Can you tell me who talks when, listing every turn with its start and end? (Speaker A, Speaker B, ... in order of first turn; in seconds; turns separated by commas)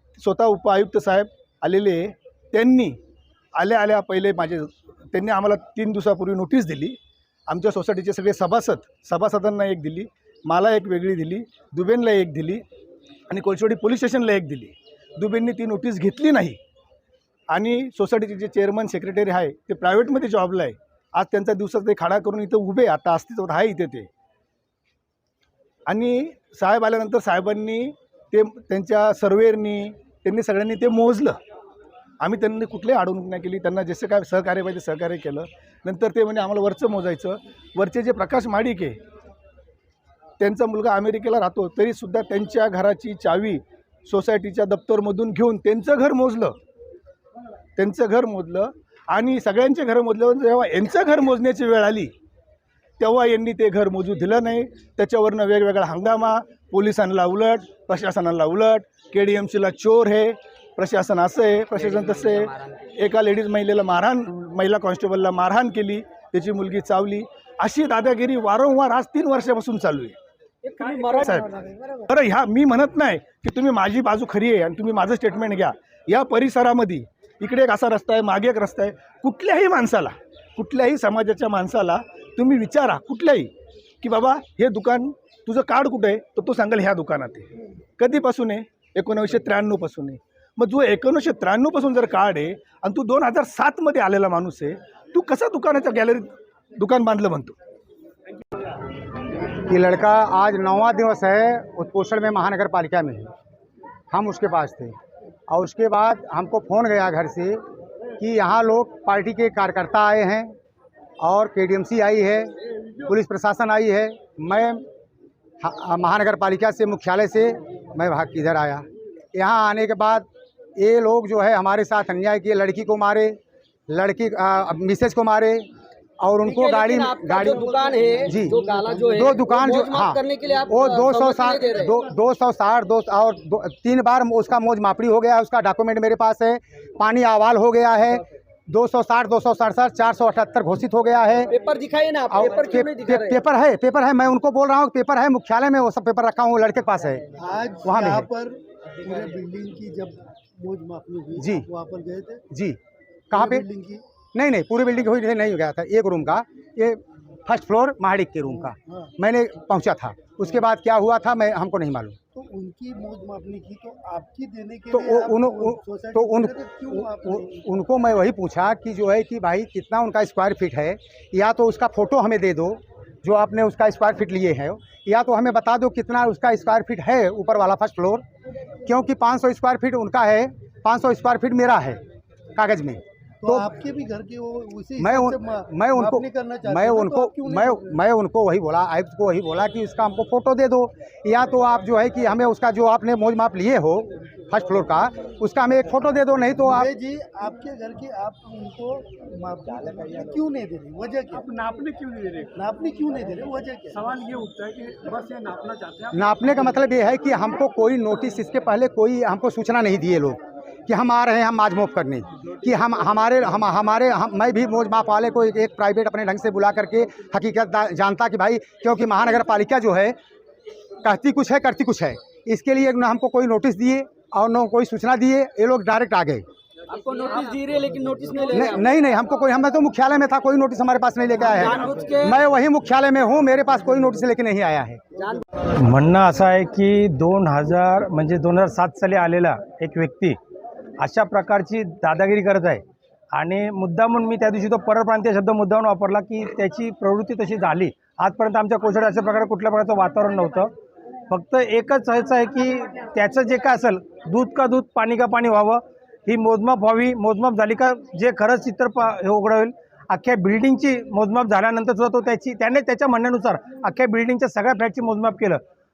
Speaker A: 0.2-3.0, Speaker A: 3.6-7.0, Speaker A: 7.5-12.6, Speaker A: 13.3-16.6, Speaker A: 17.5-24.1, Speaker A: 25.9-31.4, Speaker A: 32.2-39.0, Speaker A: 40.4-46.5, Speaker A: 47.8-52.1, Speaker A: 53.0-70.2, Speaker B: 70.6-72.0, Speaker A: 71.1-83.5, Speaker A: 84.0-97.5, Speaker C: 99.7-103.3, Speaker C: 104.1-104.9, Speaker C: 105.5-107.6, Speaker C: 108.2-110.5, Speaker C: 111.2-112.5, Speaker C: 113.0-114.8, Speaker C: 115.6-118.8, Speaker C: 119.3-123.4, Speaker C: 123.9-125.7, Speaker C: 126.2-127.6, Speaker B: 126.4-131.9, Speaker D: 128.2-129.0, Speaker C: 128.2-141.5, Speaker B: 141.5-143.4, Speaker C: 142.3-147.3, Speaker D: 147.4-152.4, Speaker C: 147.8-148.3, Speaker C: 151.4-151.7, Speaker C: 152.5-152.8, Speaker C: 153.3-153.7, Speaker D: 153.3-154.0, Speaker C: 154.3-162.2, Speaker D: 162.3-167.6, Speaker C: 164.9-178.2, Speaker C: 178.8-182.0, Speaker C: 182.5-183.7, Speaker D: 183.4-187.9, Speaker C: 185.0-196.9, Speaker D: 196.7-201.5, Speaker E: 201.4-202.5, Speaker D: 202.5-204.1, Speaker E: 204.1-206.1, Speaker C: 206.1-220.2, Speaker C: 221.0-226.4, Speaker B: 226.9-228.8, Speaker C: 228.5-235.0, Speaker B: 231.4-232.4, Speaker F: 235.8-240.4, Speaker F: 241.0-250.7, Speaker F: 251.3-265.6